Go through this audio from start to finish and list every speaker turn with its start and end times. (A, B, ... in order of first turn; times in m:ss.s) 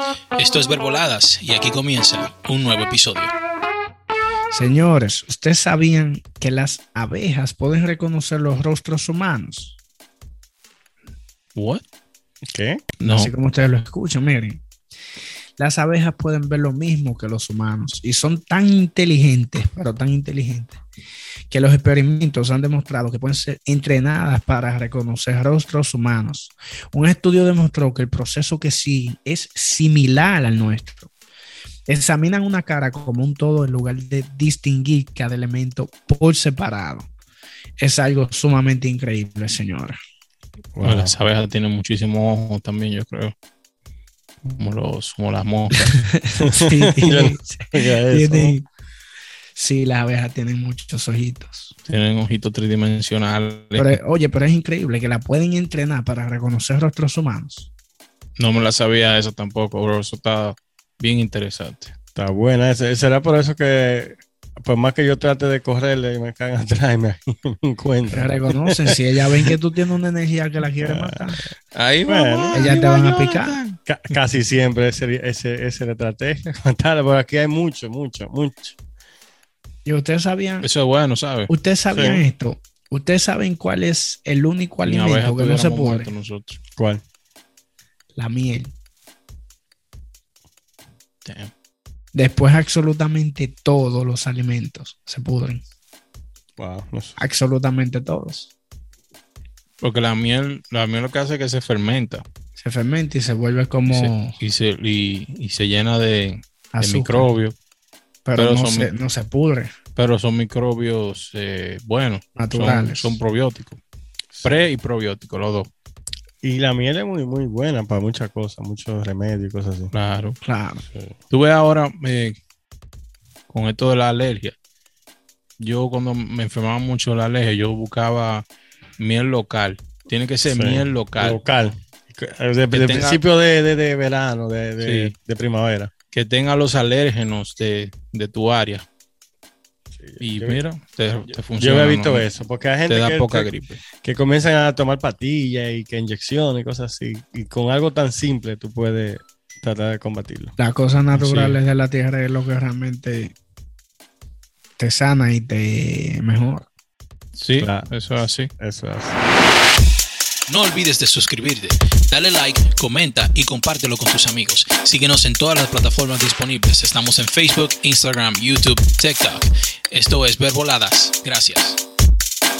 0:00.4-0:03.3 A
0:04.5-0:09.8 B
0:11.6-0:11.8 A
0:12.5-0:12.8 C
0:13.0-0:13.3 A
0:13.1-0:14.6 B
0:15.6-0:20.8 B
0:21.5-0:31.1 B
0:31.9-0:37.1 B
0:37.8-0:40.0 B
0:40.8-0:41.2 C
0:40.8-0:43.4 A
0:44.5-0:46.0 A
0:46.0-0:48.7 B
0:46.4-0:48.6 C
0:49.6-0:51.7 B
0:51.9-0:54.0 A
0:53.8-0:57.7 B
0:58.4-1:01.9 A
1:02.2-1:09.5 C
1:08.1-1:11.5 B
1:10.8-1:11.4 C
1:11.7-1:13.8 A
1:12.1-1:12.7 C
1:12.5-1:13.6 B
1:13.9-1:18.8 C
1:19.9-1:20.7 B
1:20.6-1:21.5 A
1:21.5-1:26.1 B
1:21.9-1:22.2 C
1:24.8-1:26.6 A
1:26.8-1:27.0 C
1:28.2-1:28.7 B
1:31.2-1:31.5 A
1:32.1-1:35.6 B
1:36.6-1:37.2 C
1:37.2-1:38.5 B
1:39.8-1:42.2 A
1:42.6-1:44.4 B
1:43.9-1:47.6 A
1:46.7-1:47.3 B
1:48.3-1:49.7 B
1:48.4-1:48.9 A
1:50.0-1:53.8 A
1:52.4-1:53.2 B
1:54.3-1:54.7 C
1:54.4-1:55.7 A
1:56.4-1:59.9 C
1:59.9-2:00.4 A
2:00.4-2:00.8 B
2:01.3-2:02.4 A
2:03.5-2:04.6 A
2:05.6-2:11.4 A
2:10.5-2:15.9 C
2:12.7-2:13.2 A
2:14.8-2:15.2 A
2:16.1-2:18.9 A
2:20.0-2:20.6 C
2:20.2-2:22.3 A
2:21.6-2:30.6 C
2:22.9-2:23.8 A
2:30.6-2:33.4 B
2:31.1-2:31.6 A
2:34.8-2:36.7 B
2:37.3-2:38.5 A
2:37.6-2:37.9 C
2:38.6-2:39.2 C
2:40.5-2:51.8 A